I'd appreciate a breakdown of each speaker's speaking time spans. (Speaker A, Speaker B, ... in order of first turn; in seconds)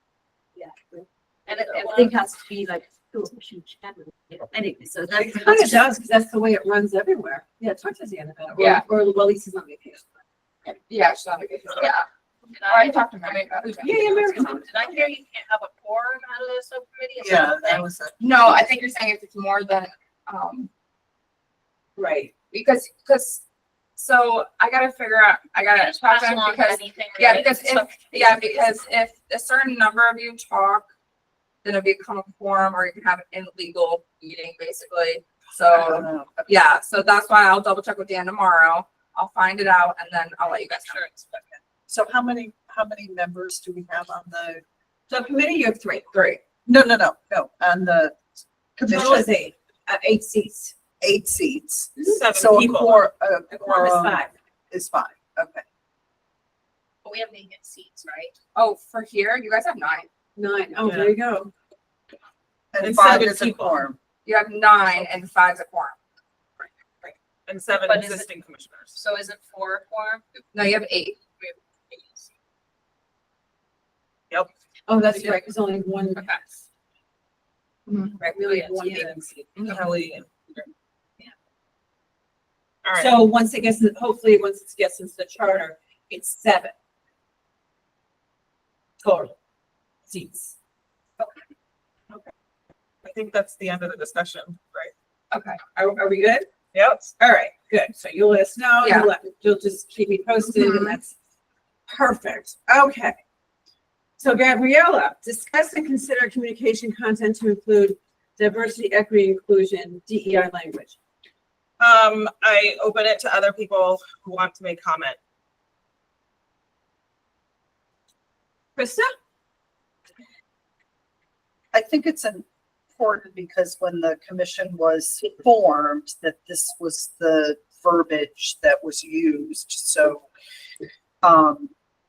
Speaker A: 0.6-5.8
Speaker B: 1.5-2.2, 4.5-5.4, 12.5-17.8, 25.7-28.4, 40.7-41.6, 57.0-58.3, 67.8-68.2, 68.9-70.2, 71.3-72.3, 78.4-79.2
Speaker C: 5.1-10.2, 13.8-14.7, 22.0-22.3, 45.1-46.4, 48.9-50.7, 52.0-54.3, 60.4-61.5, 74.9-76.5, 78.2-79.5, 83.0-86.7, 89.0-89.3, 90.1-90.5, 95.7-96.5, 97.2-101.1, 101.9-103.2, 104.2-111.0, 118.8-119.1
Speaker D: 8.6-8.8, 10.9-12.0, 12.7-14.0, 18.2-20.7, 22.5-23.4, 24.0-30.9, 31.6-41.0, 46.1-46.4, 58.5-60.1, 64.2-66.0, 70.5-71.2, 77.9-78.2, 95.3-95.6, 98.8-99.1, 100.5-101.0
Speaker E: 17.2-18.6, 35.7-36.5, 41.9-44.6, 46.6-48.2, 48.8-49.3, 51.0-54.2, 54.7-55.6, 62.7-64.0, 121.7-122.4, 123.0-130.2, 131.2-131.7
Speaker F: 52.0-53.0, 60.8-61.1, 62.8-63.8, 67.0-69.0, 79.6-80.7, 82.8-83.2, 93.0-94.9, 96.7-97.1, 111.8-115.2